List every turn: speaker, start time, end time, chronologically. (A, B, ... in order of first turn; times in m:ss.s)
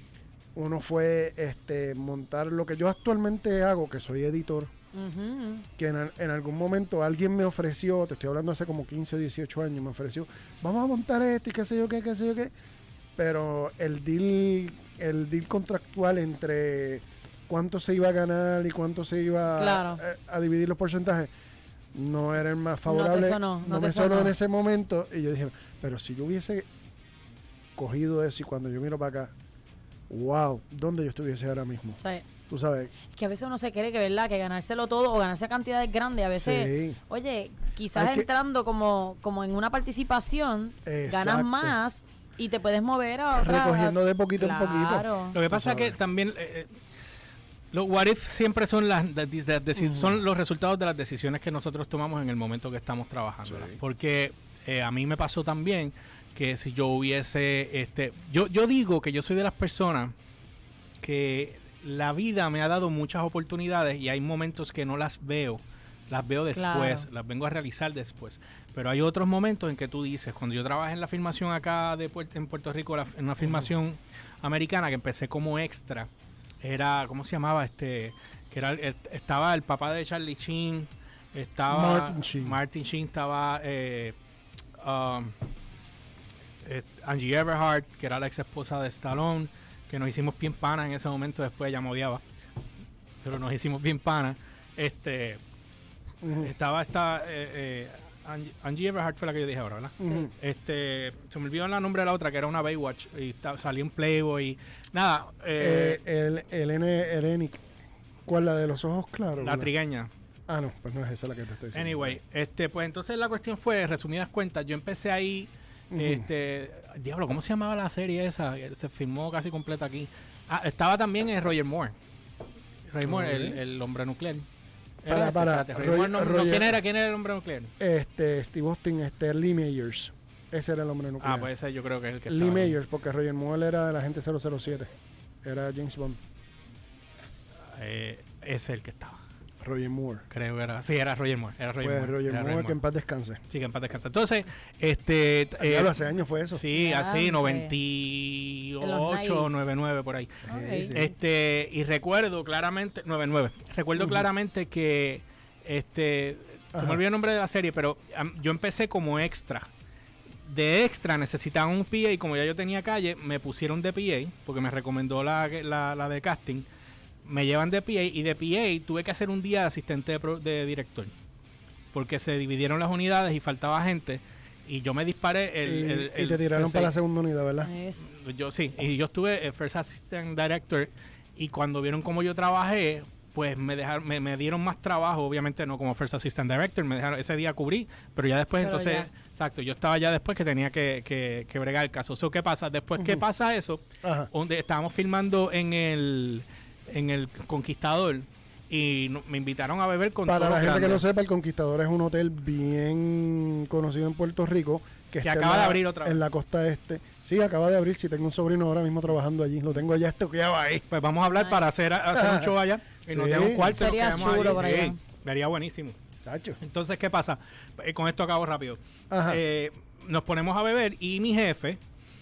0:00.6-0:04.7 A
0:04.9-0:05.7 B
0:05.8-0:12.5 A
0:13.2-0:21.3 A
0:19.6-0:20.0 B
0:21.9-0:26.6 A
0:22.9-0:24.3 B
0:27.8-0:29.3 A
0:30.1-0:32.0 A
0:31.9-0:32.2 B
0:32.5-0:32.9 A
0:33.1-0:45.4 B
0:36.3-0:37.0 A
0:37.9-0:38.3 A
0:40.9-0:41.8 A
0:43.4-0:46.0 A
0:45.3-0:46.7 C
0:47.7-1:00.1 C
0:49.8-0:50.2 A
0:53.4-0:53.8 A
1:01.0-1:16.1 C
1:06.5-1:07.1 B
1:13.4-1:13.7 A
1:16.6-1:24.1 C
1:21.7-1:22.6 A
1:24.8-1:25.3 C
1:26.6-1:32.2 C
1:33.2-1:35.4 C
1:36.2-1:36.5 A
1:36.4-1:46.0 C
1:40.0-1:40.3 A
1:45.6-1:47.6 A
1:48.2-1:49.7 A
1:49.4-1:50.1 C
1:50.5-1:52.2 A
1:51.7-2:01.9 C
1:55.9-1:56.3 A
2:02.9-2:04.4 C
2:03.0-2:03.6 A
2:05.0-2:07.7 C
2:05.1-2:06.8 A
2:07.8-2:11.5 A
2:11.2-2:12.8 C
2:12.3-2:14.9 A
2:15.4-2:16.2 A
2:17.7-2:19.2 C
2:19.6-2:20.2 A
2:20.3-2:22.8 C
2:21.8-2:23.4 A
2:23.5-2:25.9 C
2:25.6-2:26.6 A
2:26.5-2:39.7 C
2:26.7-2:27.7 B
2:28.8-2:29.7 B
2:30.5-2:30.9 B
2:30.5-2:31.1 A
2:34.0-2:34.2 A
2:36.7-2:37.0 A
2:40.4-2:46.7 C
2:47.2-2:51.1 C
2:51.9-2:56.9 C
2:55.6-2:57.7 A
2:57.6-2:58.1 B
2:58.0-3:21.0 C
3:08.6-3:09.1 B
3:12.9-3:13.2 A
3:14.0-3:14.3 A
3:20.3-3:30.8 A
3:25.2-3:26.2 C
3:30.9-3:36.0 C
3:31.3-3:31.8 B
3:32.1-3:32.6 A
3:33.1-3:34.6 A
3:33.6-3:35.0 B
3:36.2-3:36.6 A
3:36.6-3:41.8 C
3:39.1-3:39.4 A